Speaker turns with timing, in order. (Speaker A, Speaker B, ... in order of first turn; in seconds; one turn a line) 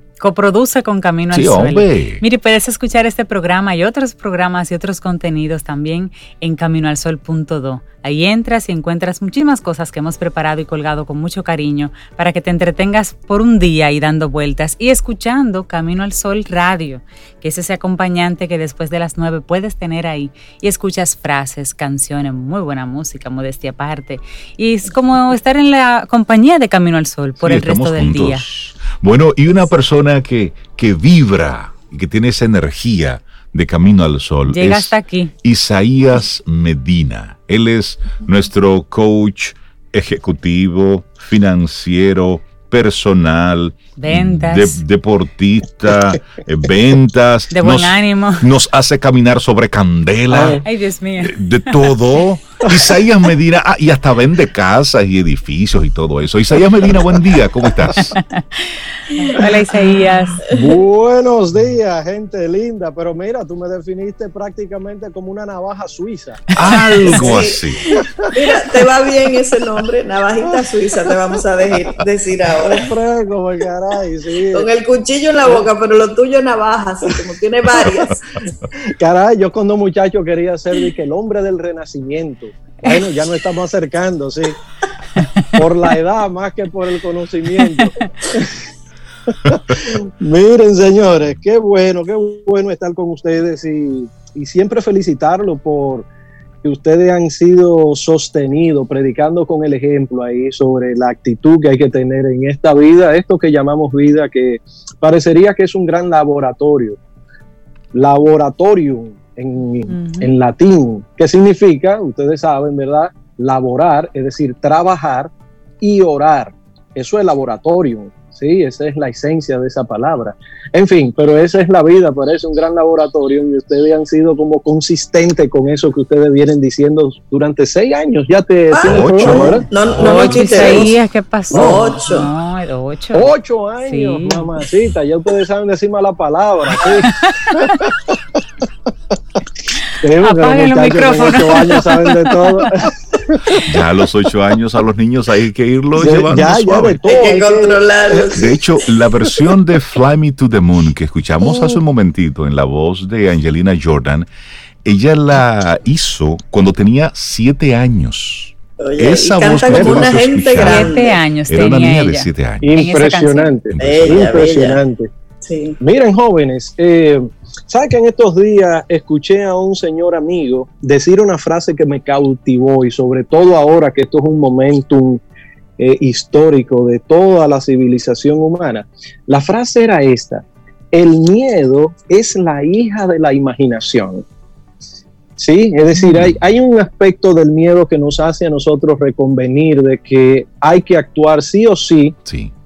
Speaker A: 0.2-28.5
Speaker B: 1.3-2.2
Speaker B: 27.4-50.6
Speaker A: 34.5-35.3
Speaker A: 44.0-44.8
Speaker A: 47.5-48.5
Speaker C: 50.3-50.6
Speaker A: 50.6-51.9
Speaker B: 51.2-58.1
Speaker A: 58.0-60.4
Speaker C: 60.5-66.5
Speaker B: 66.6-67.8
Speaker D: 67.0-67.7
Speaker D: 68.3-72.9
Speaker C: 72.6-74.7
Speaker D: 74.5-78.4
Speaker C: 79.0-84.6
Speaker C: 85.5-88.5
Speaker A: 87.6-87.9
Speaker C: 89.5-96.1
Speaker C: 96.6-107.0
Speaker C: 107.9-130.9
Speaker A: 109.9-110.3
Speaker D: 128.7-131.0
Speaker B: 128.8-130.5
Speaker A: 130.0-133.3
Speaker C: 131.5-131.9
Speaker D: 131.5-132.3
Speaker C: 133.1-138.2
Speaker A: 133.8-134.5
Speaker A: 137.1-137.8
Speaker C: 140.0-143.7
Speaker A: 140.2-142.7
Speaker B: 143.7-147.0
Speaker C: 145.9-147.8
Speaker D: 147.1-148.8
Speaker B: 148.2-154.3
Speaker D: 151.4-151.8
Speaker B: 154.8-160.9
Speaker D: 158.8-161.2
Speaker C: 159.7-160.1
Speaker A: 160.6-163.5
Speaker B: 161.5-162.8
Speaker C: 162.6-165.1
Speaker B: 163.7-164.6
Speaker D: 163.8-164.8
Speaker D: 165.4-165.8
Speaker C: 165.8-175.2
Speaker C: 175.8-184.2
Speaker C: 185.4-192.2
Speaker B: 192.3-192.5